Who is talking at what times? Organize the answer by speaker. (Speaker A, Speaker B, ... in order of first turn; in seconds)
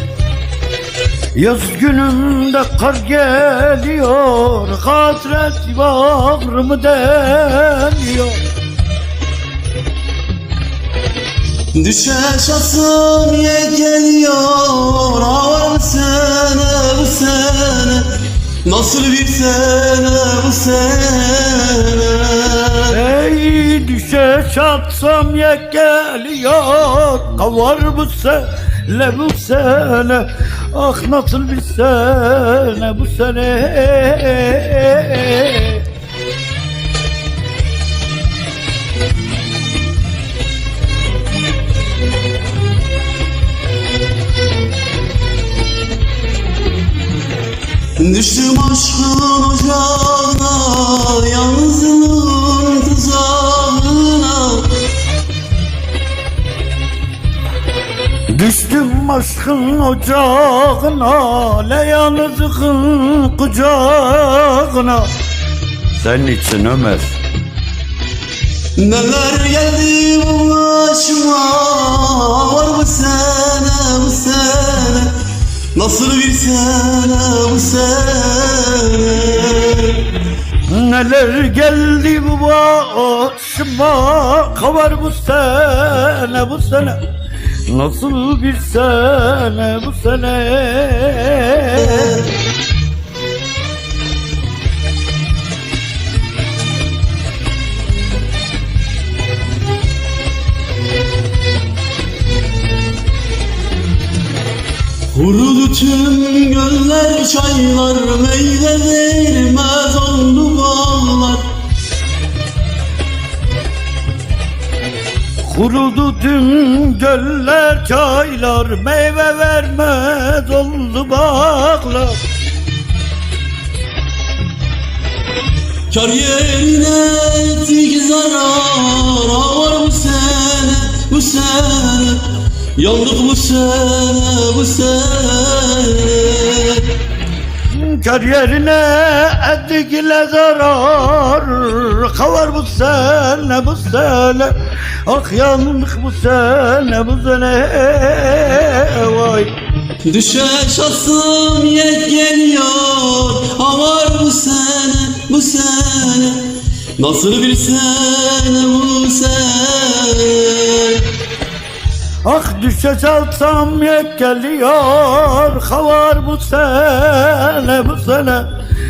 Speaker A: 1.4-8.4, 22.9-35.9, 58.3-65.1, 66.0-67.2, 80.7-87.0, 87.7-92.2, 115.4-122.2, 137.7-144.5, 145.1-149.6, 162.2-168.5
Speaker B: 11.7-22.9, 48.0-54.8, 68.8-75.2, 75.7-80.1, 105.1-111.5, 125.9-137.0, 150.1-161.1